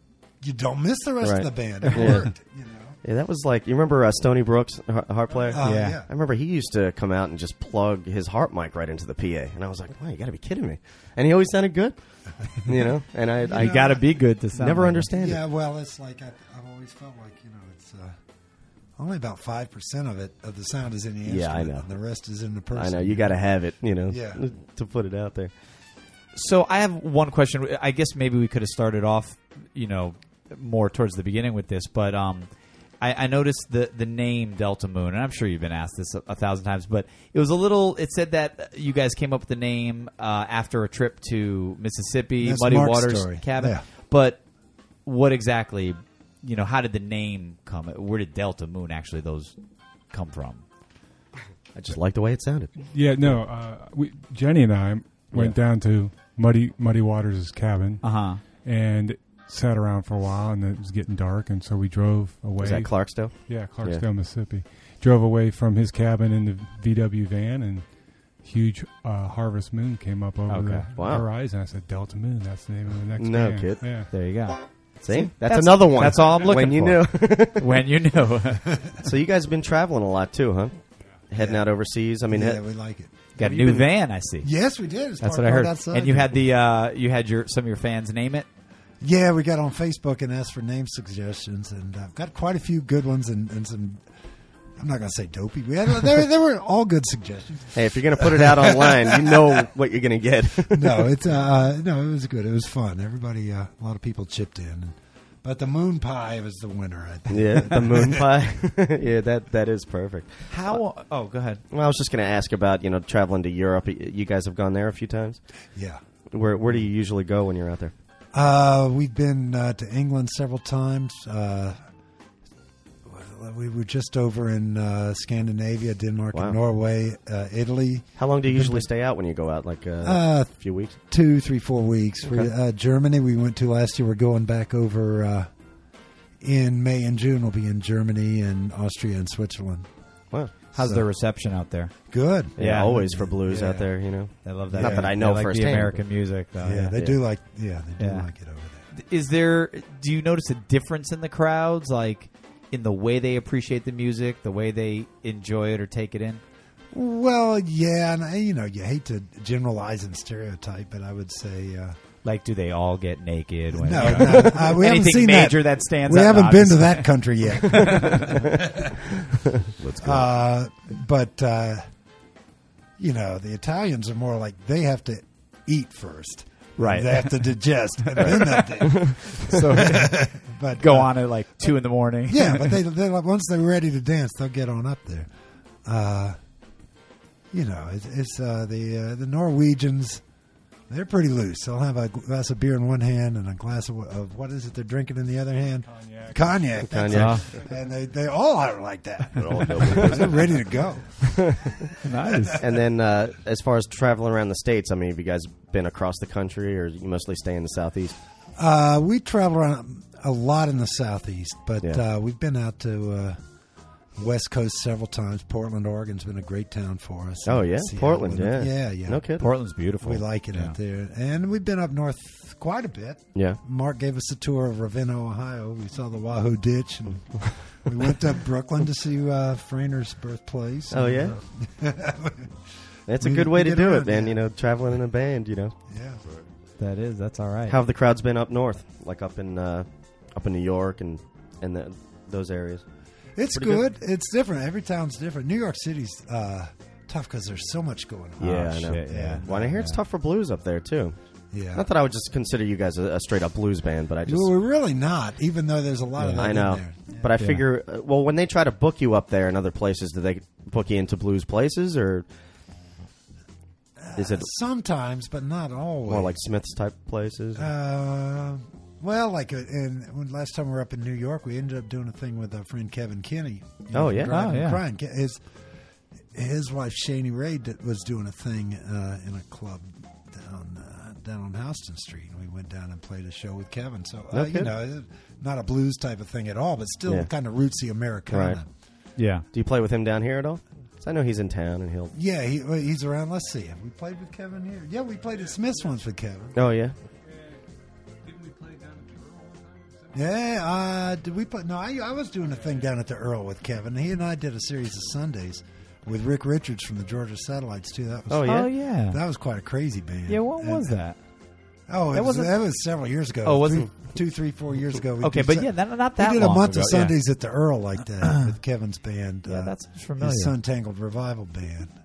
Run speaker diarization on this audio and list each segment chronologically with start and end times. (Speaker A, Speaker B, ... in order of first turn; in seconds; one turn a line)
Speaker A: 0.4-3.0
Speaker B: 1.2-2.3
Speaker C: 1.8-2.2
Speaker B: 3.0-12.0
Speaker A: 5.5-6.1
Speaker C: 5.6-6.0
Speaker B: 12.5-14.0
Speaker A: 13.5-14.0
Speaker C: 13.5-15.1
Speaker B: 14.6-15.4
Speaker A: 15.1-18.2
Speaker A: 19.0-23.4
Speaker B: 21.2-21.9
Speaker B: 22.8-25.5
Speaker A: 24.1-24.4
Speaker C: 26.4-32.5
Speaker C: 33.0-44.4
Speaker A: 42.4-43.9
Speaker C: 45.0-49.6
Speaker C: 50.1-50.6
Speaker B: 51.8-52.8
Speaker D: 52.8-67.9
Speaker C: 58.0-58.4
Speaker B: 62.6-64.0
Speaker D: 68.4-74.1
Speaker C: 70.5-70.9
Speaker B: 71.0-71.3
Speaker B: 73.2-74.0
Speaker C: 74.1-78.7
Speaker B: 75.0-77.9
Speaker B: 79.0-80.8
Speaker B: 81.3-82.6
Speaker A: 81.4-81.7
Speaker A: 82.3-83.3
Speaker C: 83.4-84.5
Speaker B: 83.4-83.8
Speaker A: 84.4-86.4
Speaker C: 85.2-88.5
Speaker A: 89.0-94.0
Speaker A: 94.8-99.7
Speaker B: 97.8-101.1
Speaker A: 100.7-108.3
Speaker B: 107.3-110.8
Speaker C: 110.5-111.6
Speaker B: 111.7-115.4
Speaker A: 115.8-116.0
Speaker B: 116.3-117.9
Speaker A: 118.3-121.8
Speaker A: 123.0-128.9
Speaker B: 126.3-126.6
Speaker B: 128.2-131.0
Speaker A: 130.0-130.5
Speaker A: 131.1-135.5
Speaker A: 136.4-139.9
Speaker A: 140.7-141.1
Speaker C: 140.7-141.9
Speaker A: 142.1-143.9
Speaker C: 142.6-142.9
Speaker B: 142.6-146.0
Speaker C: 144.4-147.0
Speaker A: 144.7-145.1
Speaker A: 146.6-148.9
Speaker C: 148.0-148.3
Speaker C: 148.9-156.4
Speaker A: 156.9-162.0
Speaker C: 162.2-168.4
Speaker A: 163.7-168.9
Speaker B: 167.7-168.6
Speaker E: 169.8-170.3
Speaker A: 170.0-171.8
Speaker A: 173.0-181.7
Speaker C: 176.8-177.5
Speaker C: 178.1-182.8
Speaker A: 182.3-185.3
Speaker A: 185.8-186.4
Speaker A: 187.5-190.2
Speaker A: 190.9-202.7
Speaker D: 195.9-197.8
Speaker B: 196.9-197.4
Speaker C: 197.1-197.5
Speaker E: 199.3-200.8
Speaker B: 201.2-201.9
Speaker C: 202.0-202.6
Speaker B: 202.6-208.2
Speaker A: 208.6-213.4
Speaker A: 214.2-219.4
Speaker B: 217.4-219.5
Speaker C: 219.4-220.8
Speaker A: 220.0-232.6
Speaker B: 230.9-231.4
Speaker B: 233.1-235.7
Speaker A: 233.2-234.4
Speaker A: 235.9-236.2
Speaker E: 236.2-236.5
Speaker C: 236.8-237.8
Speaker B: 237.7-242.8
Speaker A: 243.4-249.8
Speaker B: 243.5-243.8
Speaker B: 248.4-251.2
Speaker C: 248.5-250.0
Speaker A: 251.5-251.9
Speaker B: 251.7-254.5
Speaker A: 254.3-257.3
Speaker C: 256.2-256.5
Speaker B: 256.4-262.3
Speaker C: 257.4-257.6
Speaker A: 264.0-266.4
Speaker B: 264.2-264.5
Speaker B: 266.1-267.7
Speaker A: 267.6-275.4
Speaker B: 273.9-274.4
Speaker C: 274.3-274.8
Speaker A: 276.3-288.7
Speaker B: 284.3-284.7
Speaker B: 288.3-288.6
Speaker C: 289.2-289.4
Speaker B: 289.5-292.1
Speaker A: 292.1-296.6
Speaker D: 295.3-295.9
Speaker B: 296.6-296.9
Speaker D: 297.2-297.6
Speaker D: 298.2-300.2
Speaker A: 300.1-311.0
Speaker D: 302.5-302.9
Speaker B: 308.3-308.7
Speaker C: 308.4-309.2
Speaker C: 310.3-311.2
Speaker A: 311.9-321.9
Speaker C: 312.1-312.6
Speaker C: 313.4-313.9
Speaker C: 315.2-317.1
Speaker C: 319.5-320.6